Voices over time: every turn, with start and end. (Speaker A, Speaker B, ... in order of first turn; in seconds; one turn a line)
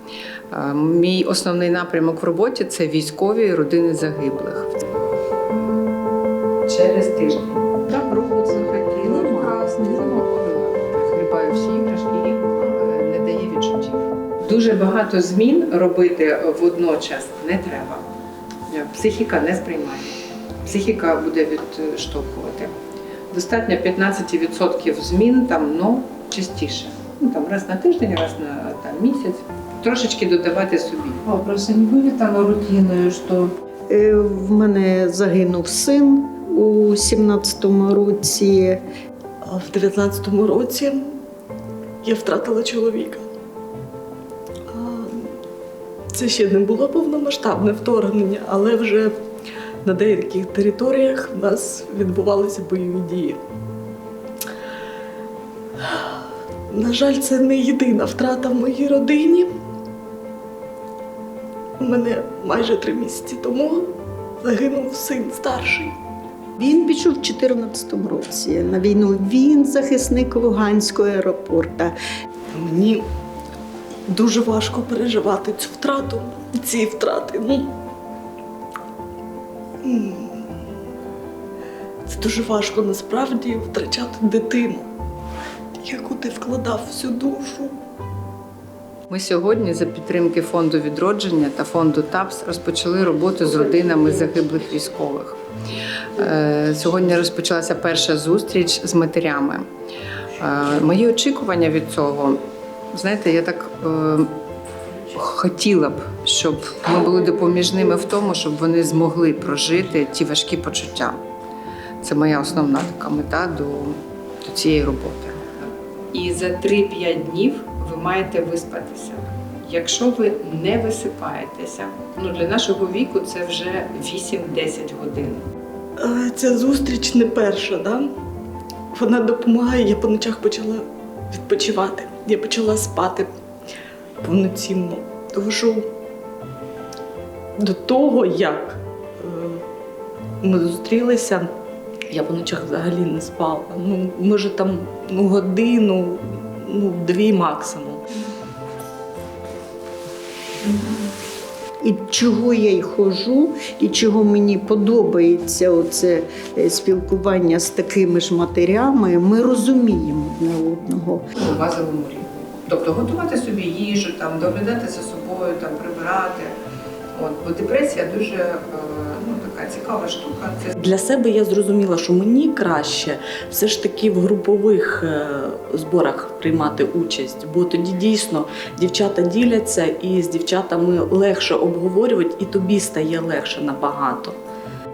Speaker A: 0.5-4.9
Speaker A: 6.7-18.1
Speaker B: 9.0-10.1
Speaker A: 18.7-22.7
Speaker A: 23.3-31.2
Speaker B: 31.2-33.5
Speaker C: 33.9-38.8
Speaker D: 39.4-41.1
Speaker D: 42.0-43.2
Speaker D: 44.7-45.4
Speaker D: 46.1-49.1
Speaker D: 49.8-53.4
Speaker D: 55.8-56.1
Speaker D: 56.7-59.5
Speaker D: 61.8-66.0
Speaker C: 66.6-72.0
Speaker D: 72.5-73.0
Speaker D: 74.1-77.7
Speaker D: 79.8-80.5
Speaker D: 82.1-84.9
Speaker D: 85.8-87.8
Speaker A: 89.1-95.4
Speaker A: 96.1-99.7
Speaker A: 100.3-104.3
Speaker A: 105.1-111.2
Speaker A: 112.0-125.5
Speaker D: 126.0-128.1
Speaker D: 128.9-133.3
Speaker D: 134.2-135.9
Speaker D: 137.6-139.7
Speaker D: 140.4-141.5
Speaker D: 142.1-148.0
Speaker C: 151.8-161.2
Speaker A: 161.3-166.5
Speaker A: 167.1-170.8
Speaker D: 170.8-184.4